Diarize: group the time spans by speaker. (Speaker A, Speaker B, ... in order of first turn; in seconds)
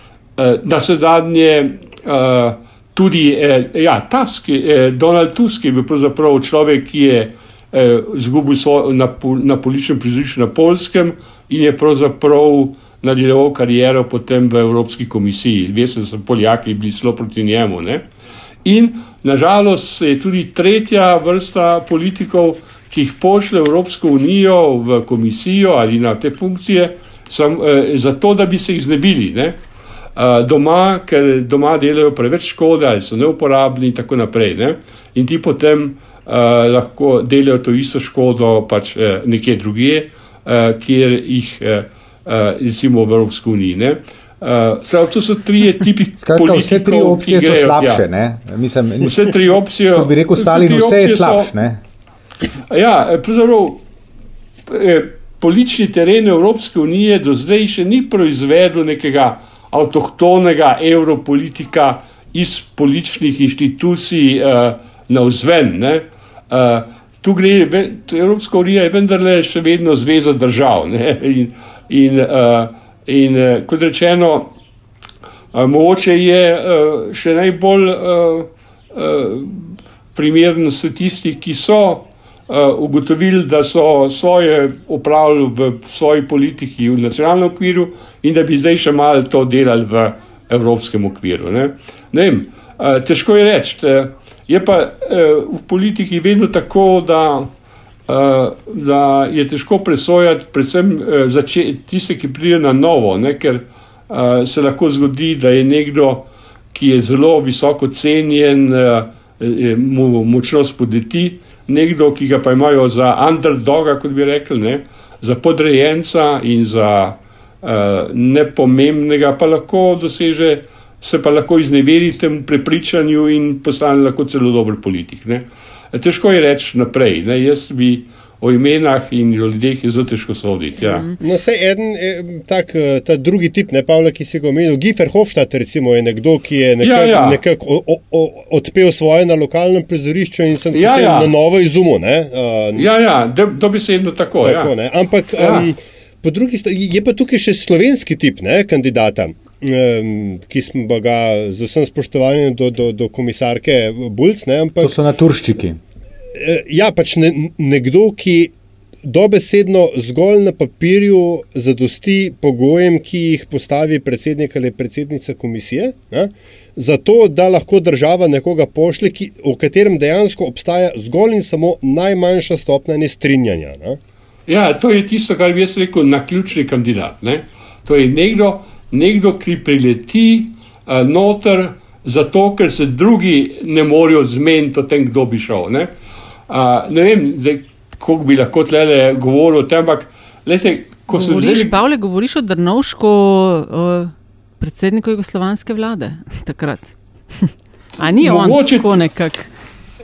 Speaker A: 0.4-18.1, 18.6-29.6, 30.2-48.0, 49.0-51.5, 52.7-53.8, 54.7-74.5, 75.5-97.5, 98.1-131.1, 136.8-137.4, 140.7-141.3, 142.8-144.7, 145.4-145.7, 174.5-185.9, 186.5-191.8, 198.2-199.0
Speaker B: 46.2-49.4, 49.9-51.8, 154.8-155.8
Speaker C: 131.2-142.9, 144.4-155.0, 156.4-158.5, 159.0-174.0
Speaker D: 191.1-199.5